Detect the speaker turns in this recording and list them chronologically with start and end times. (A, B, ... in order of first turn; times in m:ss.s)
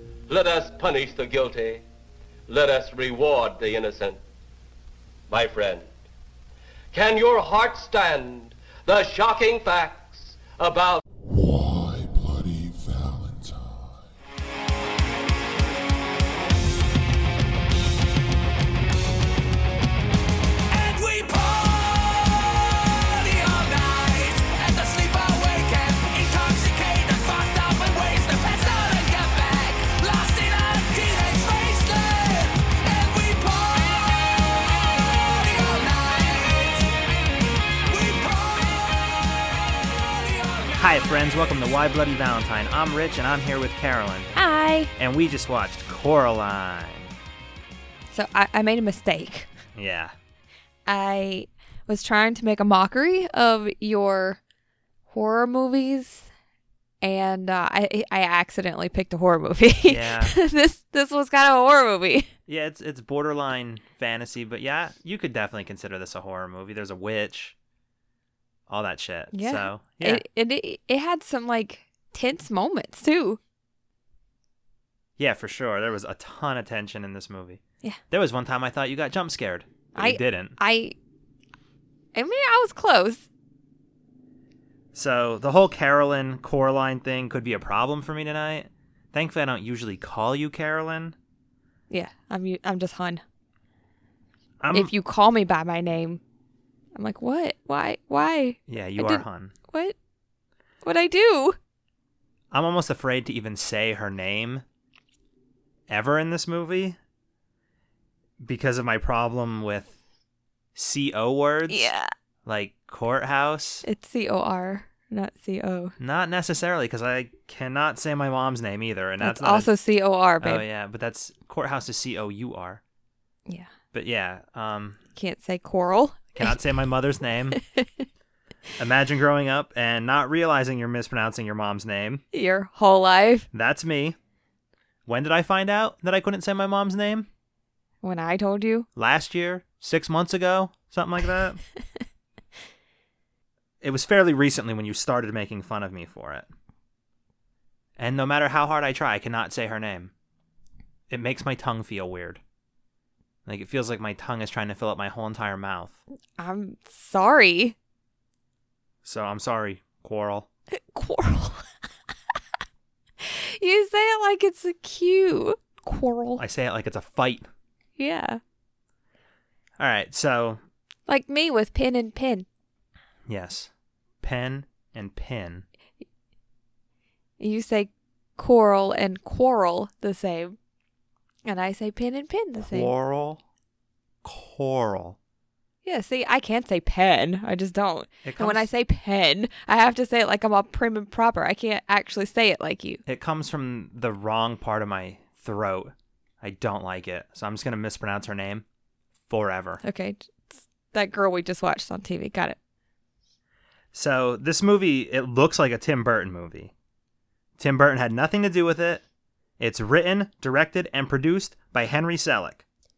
0:00.3-0:01.8 A
0:02.5-0:04.2 A
0:05.3-0:05.9 A
0:06.9-0:11.0 A
0:11.2-0:14.1 B
0:20.7-0:36.9 C
0:37.9-0:41.0 C
0:40.8-0:44.3 D
0:44.3-0:44.9 E
0:45.0-0:47.1 D
0:48.1-0:49.5 E
0:49.7-0:50.1 D
0:50.8-0:54.4 E
0:55.1-0:56.3 E
0:57.0-1:02.3 E
0:59.8-1:00.3 D
1:02.5-1:07.5 D
1:08.7-1:10.2 D
1:09.3-1:13.4 E
1:15.2-1:20.6 D
1:19.9-1:20.9 E
1:22.1-1:23.2 E
1:24.9-1:31.2 D
1:31.9-1:33.2 E
1:34.6-1:34.9 D
1:34.7-1:36.2 E
1:36.9-1:39.9 E
1:38.7-1:39.5 D
1:40.8-1:41.6 E
1:42.5-1:44.6 D
1:45.9-1:47.0 D
1:48.4-1:49.9 D
1:50.7-1:51.9 D
1:51.7-1:52.1 E
1:52.4-1:53.8 D
1:53.8-1:55.9 E
1:56.0-1:59.7 D
1:59.2-2:00.6 E
2:00.4-2:02.8 D
2:03.9-2:05.0 D
2:05.2-2:06.6 E
2:06.3-2:07.6 D
2:07.6-2:07.9 E
2:08.8-2:12.2 D
2:12.3-2:13.5 E
2:13.5-2:14.2 D
2:15.0-2:17.3 D
2:18.0-2:18.8 E
2:19.0-2:21.6 D
2:23.8-2:26.5 D
2:28.0-2:30.1 D
2:31.1-2:32.4 D
2:33.4-2:36.0 D
2:36.4-2:37.7 E
2:39.0-2:40.5 D
2:40.7-2:41.6 E
2:43.2-2:46.4 E
2:46.4-2:47.5 D
2:48.0-2:48.4 E
2:49.8-2:50.6 D
2:51.1-2:52.4 E
2:53.3-2:53.7 D
2:54.2-2:55.6 D
2:57.4-3:00.6 E
3:01.4-3:02.9 E
3:02.6-3:03.4 D
3:04.2-3:05.2 D
3:05.8-3:13.0 E
3:08.2-3:08.6 D
3:13.0-3:18.6 D
3:19.3-3:19.8 D
3:19.8-3:22.6 E
3:23.9-3:26.7 D
3:27.6-3:29.0 D
3:29.6-3:32.6 D